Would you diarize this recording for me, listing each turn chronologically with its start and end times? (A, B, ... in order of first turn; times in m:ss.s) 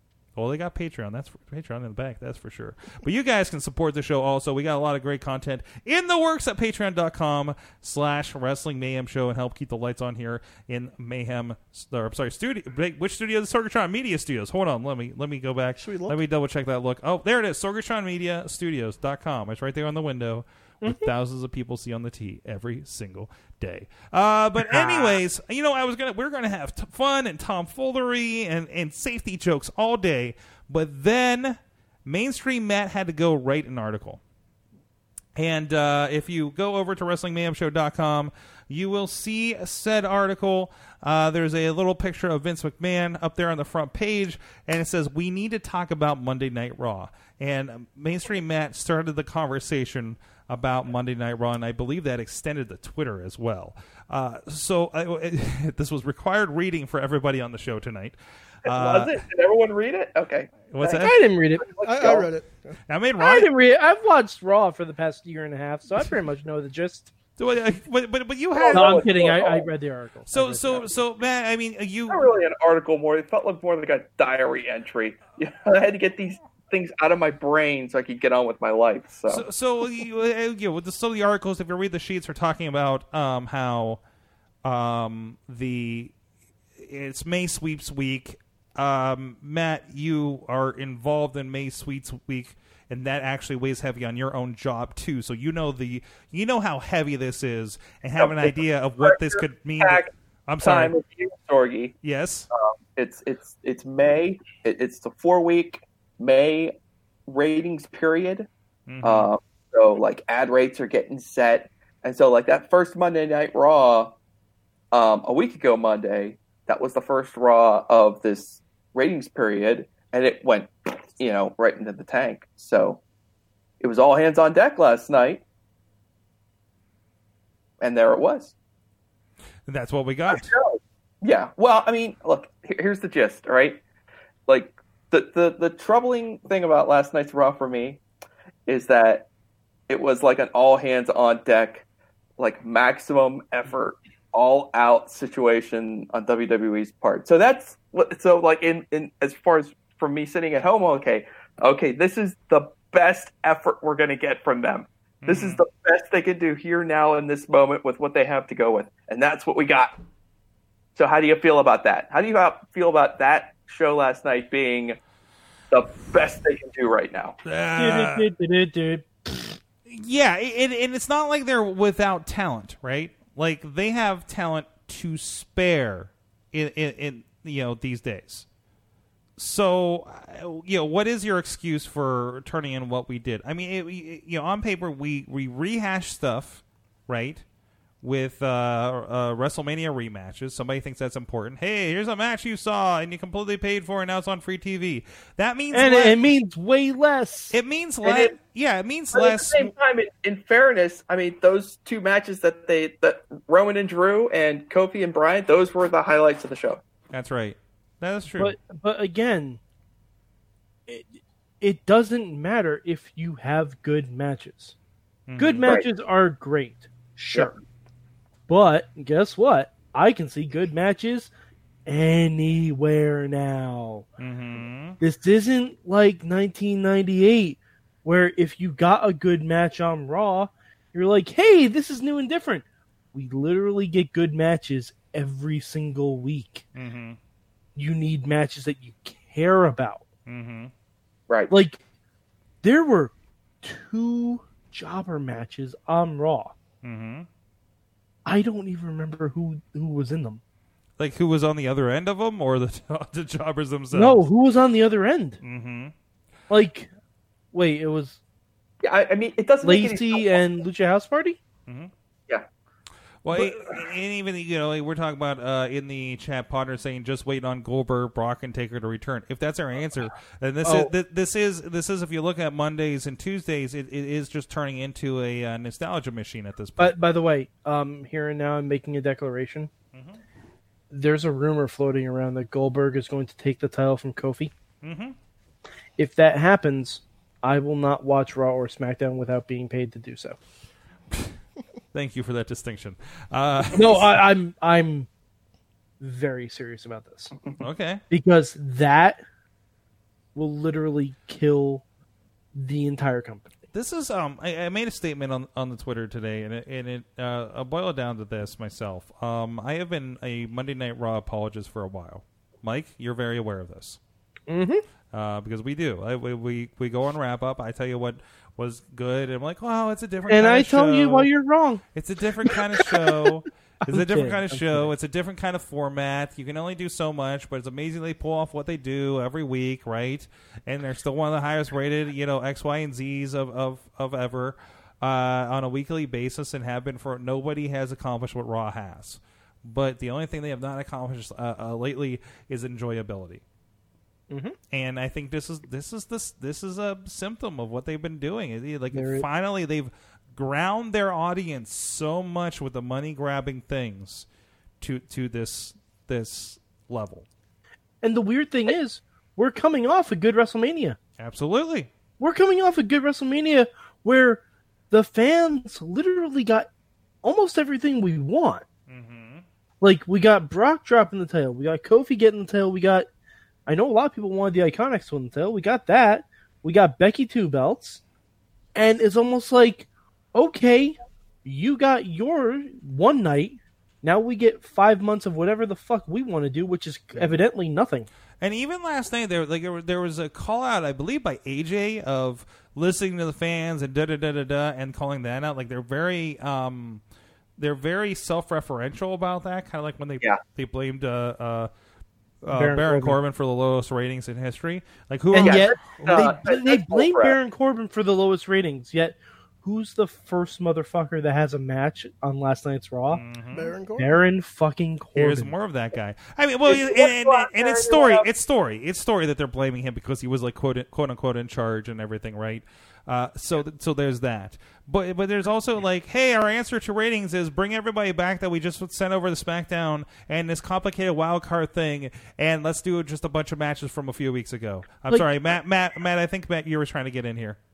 0:00.4-0:34.2 A
0:15.8-0:16.2 B
0:20.8-0:21.1 C
0:24.6-0:25.2 C
0:35.4-0:59.2 A
0:58.6-1:02.3 D
1:00.7-1:01.1 A
1:00.9-1:01.7 C
1:01.8-1:02.8 B
1:02.9-1:03.5 A
1:03.2-1:07.1 C
1:07.4-1:09.0 A
1:08.5-1:09.7 D
1:08.7-1:11.0 C
1:10.3-1:12.2 A
1:12.1-1:19.4 D
1:19.3-1:24.0 A
1:24.6-1:26.1 A
1:26.8-1:40.9 A
1:38.2-1:40.1 D
1:40.6-1:41.9 D
1:42.0-1:42.5 A
1:42.5-1:46.7 D
1:47.3-1:48.5 D
1:48.9-1:49.3 A
1:49.0-1:54.1 D
1:54.9-2:03.0 D
2:03.8-2:05.4 D
2:07.8-2:08.5 D
2:09.7-2:10.5 A
2:10.3-2:13.8 D
2:14.5-2:18.0 D
2:18.7-2:19.3 D
2:19.9-2:21.8 D
2:22.4-2:39.9 D
2:35.2-2:35.6 A
2:41.0-2:45.0 D
2:45.7-2:47.4 D
2:47.4-2:48.3 A
2:47.8-2:49.6 C
2:49.9-2:58.4 A
2:59.4-3:07.4 A
3:08.0-3:16.2 A
3:15.7-3:17.6 C
3:17.5-3:19.7 A
3:18.0-3:18.3 D
3:19.1-3:26.8 D
3:27.1-3:28.5 A
3:28.4-3:29.6 C
3:30.9-3:34.7 C
3:35.3-3:35.7 A
3:35.4-3:37.5 C
3:37.3-3:37.6 D
3:38.5-3:41.3 C
3:41.8-3:44.0 C
3:44.2-3:45.0 A
3:45.0-3:56.6 C
3:56.7-3:57.2 A
3:57.8-4:00.0 C
4:00.3-4:00.7 A
4:01.5-4:01.8 C
4:02.6-4:06.5 C
4:06.8-4:07.3 A
4:08.2-4:10.4 C
4:11.0-4:14.2 A
4:13.9-4:15.4 C
4:15.4-4:15.9 A
4:16.5-4:16.9 C
4:17.5-4:18.2 C
4:18.8-4:20.4 D
4:19.6-4:21.4 C
4:23.2-4:36.9 A
4:23.3-4:23.8 D
4:30.6-4:30.9 C
4:36.8-4:39.7 C
4:39.9-4:40.2 A
4:40.9-4:44.5 C
4:44.8-4:45.1 A
4:46.0-4:50.4 C
4:51.9-4:54.2 A
4:53.7-4:55.1 C
4:56.0-4:57.3 C
4:57.6-4:58.0 A
4:58.1-4:59.2 C
5:00.3-5:01.8 C
5:02.5-5:03.5 C
5:03.7-5:14.0 A
5:14.5-5:14.8 C
5:15.1-5:21.3 A
5:20.3-5:21.8 C
5:21.9-5:43.4 A
5:22.5-5:23.2 C
5:23.9-5:24.9 C
5:44.3-5:44.6 C
5:44.7-5:54.2 A
5:48.9-5:49.2 C
5:54.8-5:57.2 A
5:58.0-6:01.0 C
6:01.2-6:01.9 A
6:02.2-6:06.7 C
6:07.2-6:08.6 C
6:08.9-6:09.4 A
6:09.8-6:13.1 C
6:13.6-6:18.0 C
6:18.7-6:28.1 C
6:28.4-6:37.0 A
6:37.6-6:41.7 A
6:42.4-6:46.3 A
6:42.5-6:43.2 C
6:45.3-6:53.2 C
6:45.4-6:47.4 D
6:53.1-6:53.7 A
6:53.5-6:54.1 B
6:54.0-6:55.5 C
6:55.2-7:17.6 A
6:56.6-6:58.3 D